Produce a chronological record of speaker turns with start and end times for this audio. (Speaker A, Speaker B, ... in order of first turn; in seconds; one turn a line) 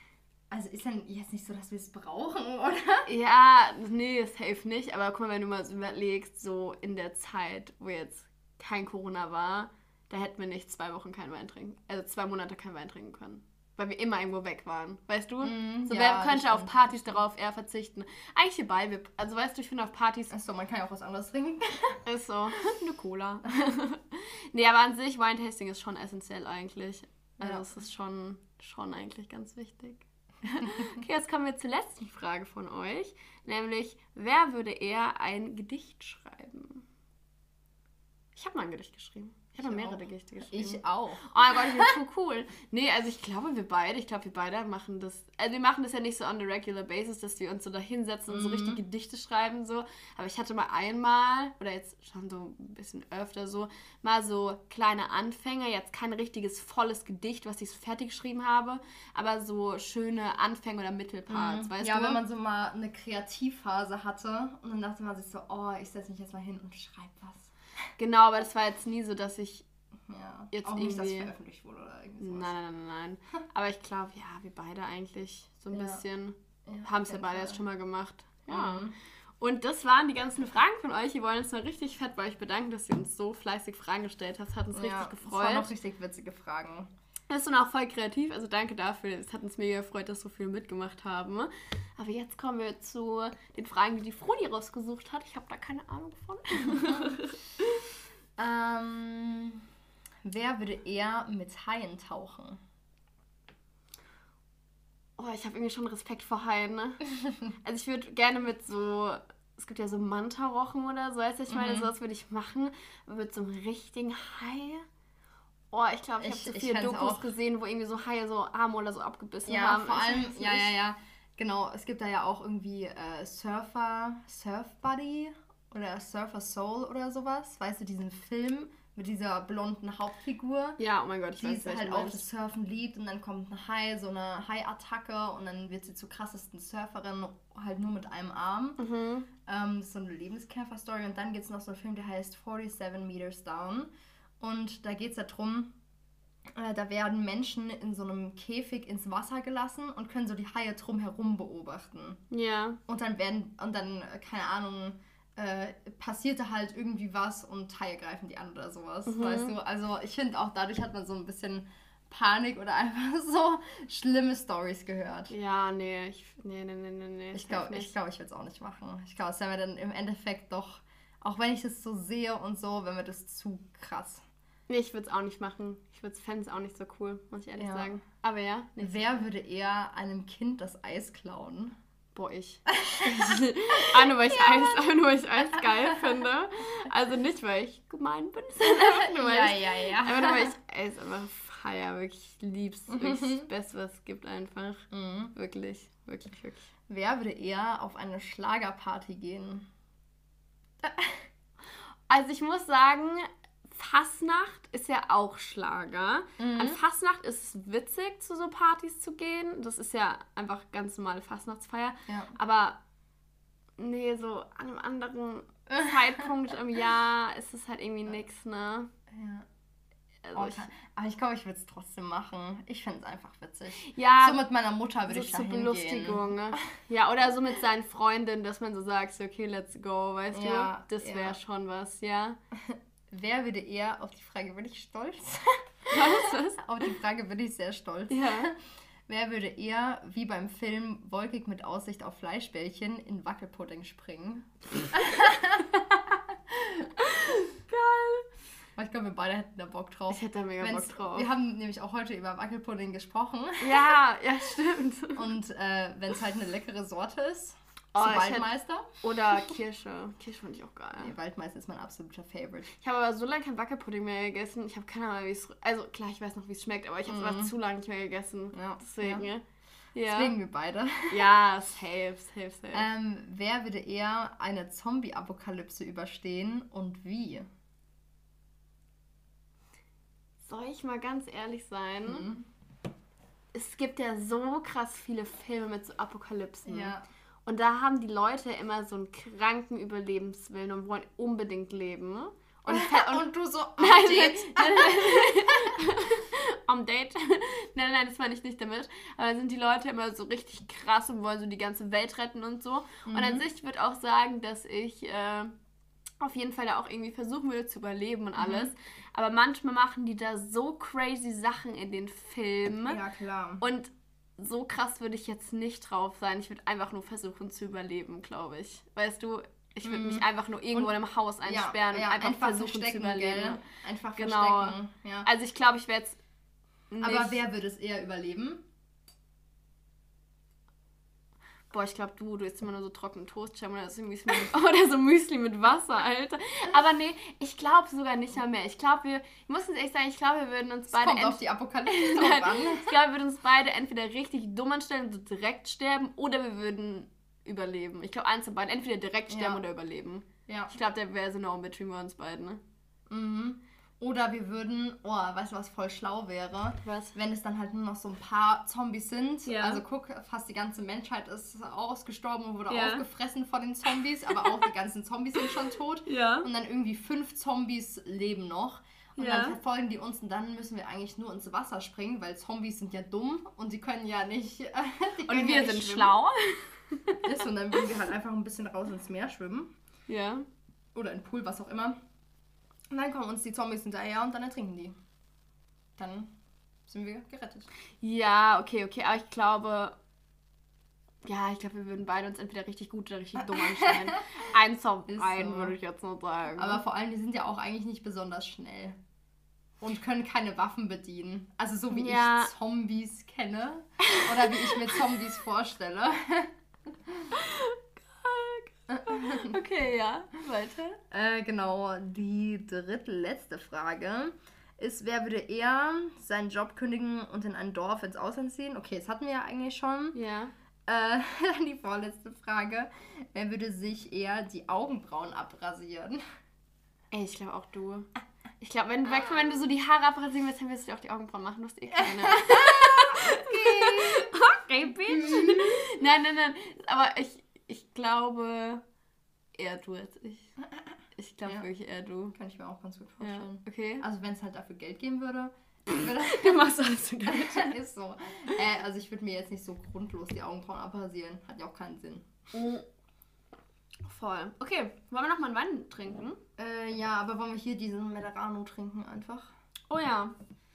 Speaker A: 0.5-3.1
Speaker B: 3.0-20.3
Speaker A: 15.4-17.2
Speaker A: 20.3-22.0
Speaker B: 22.0-36.8
Speaker A: 27.4-27.7
Speaker B: 38.4-62.2
Speaker A: 39.6-41.9
Speaker A: 48.3-48.8
Speaker A: 61.3-67.5
Speaker B: 68.0-69.7
Speaker A: 70.0-72.5
Speaker B: 70.5-71.3
Speaker B: 72.2-85.7
Speaker A: 75.7-76.0
Speaker A: 76.6-77.6
Speaker A: 78.5-78.9
Speaker A: 84.7-86.9
Speaker B: 87.3-97.8
Speaker A: 96.7-97.1
Speaker A: 98.4-99.6
Speaker A: 100.2-102.6
Speaker B: 105.2-114.8
Speaker A: 111.5-111.9
Speaker B: 115.7-120.7
Speaker A: 116.2-117.3
Speaker A: 119.5-130.8
Speaker B: 130.8-132.2
Speaker A: 131.4-138.8
Speaker B: 138.8-139.3
Speaker A: 139.4-145.7
Speaker A: 146.5-152.2
Speaker B: 152.3-152.8
Speaker A: 152.9-165.3
Speaker B: 159.0-159.5
Speaker B: 165.3-167.9
Speaker A: 167.3-174.2
Speaker B: 174.7-179.2
Speaker A: 177.6-178.0
Speaker A: 178.8-181.8
Speaker B: 182.1-196.7
Speaker A: 182.7-184.9
Speaker A: 185.5-186.2
Speaker A: 188.6-190.5
Speaker A: 192.9-193.5
Speaker A: 194.9-195.3
Speaker A: 196.9-199.7
Speaker A: 200.8-201.3
Speaker B: 202.1-212.8
Speaker A: 206.4-206.8
Speaker A: 212.1-212.3
Speaker B: 213.8-218.9
Speaker A: 215.7-216.3
Speaker A: 219.1-219.4
Speaker B: 220.2-220.7
Speaker A: 220.3-226.3
Speaker B: 223.8-224.4
Speaker B: 225.1-232.4
Speaker A: 230.3-231.4
Speaker A: 232.5-247.3
Speaker B: 235.9-236.6
Speaker B: 238.1-238.5
Speaker B: 247.0-248.3
Speaker A: 248.8-254.0
Speaker B: 250.1-251.3
Speaker B: 253.6-255.2
Speaker A: 255.1-258.9
Speaker B: 257.9-261.1
Speaker A: 261.0-262.8
Speaker B: 262.8-269.4
Speaker A: 267.1-267.5
Speaker A: 268.5-269.3
Speaker B: 269.9-270.3
Speaker A: 270.0-271.2
Speaker B: 271.1-272.9
Speaker A: 272.7-277.5
Speaker B: 280.4-282.3
Speaker A: 282.0-282.4
Speaker B: 283.5-286.9
Speaker A: 286.6-287.0
Speaker B: 287.4-293.3
Speaker A: 292.7-295.8
Speaker B: 293.8-305.6
Speaker A: 303.1-303.4
Speaker B: 306.2-313.0
Speaker A: 308.4-308.7
Speaker A: 312.9-313.6
Speaker B: 313.6-323.6
Speaker A: 319.8-325.3
Speaker B: 324.1-326.2
Speaker B: 326.9-327.4
Speaker A: 327.0-328.6
Speaker B: 331.7-352.6
Speaker A: 340.9-342.9
Speaker A: 349.3-349.6
Speaker A: 350.5-350.7
Speaker A: 353.1-376.1
Speaker B: 356.8-357.1
Speaker B: 359.4-359.8
Speaker B: 362.7-363.0
Speaker B: 366.1-366.5
Speaker B: 369.2-369.6
Speaker B: 375.2-377.4
Speaker A: 377.2-379.7
Speaker B: 380.1-380.4
Speaker A: 380.9-382.0
Speaker A: 382.9-384.9
Speaker A: 386.0-386.3
Speaker A: 386.9-387.7
Speaker B: 388.0-390.0
Speaker B: 391.2-396.8
Speaker A: 393.4-394.2
Speaker A: 395.1-395.8
Speaker A: 396.6-399.0
Speaker A: 399.8-407.3
Speaker B: 401.9-402.5
Speaker B: 404.0-404.9
Speaker B: 407.3-411.0
Speaker A: 408.9-409.6
Speaker A: 411.1-420.2
Speaker B: 420.1-420.5
Speaker A: 420.9-426.2
Speaker B: 427.1-428.1
Speaker B: 428.6-438.8
Speaker A: 432.0-434.3
Speaker A: 435.0-435.8
Speaker B: 439.5-440.5
Speaker B: 441.1-442.4
Speaker A: 442.3-446.7
Speaker B: 443.2-444.0
Speaker B: 445.9-447.8
Speaker A: 447.3-452.3
Speaker B: 452.5-452.8
Speaker B: 454.0-456.4
Speaker A: 456.6-459.5
Speaker B: 459.9-460.3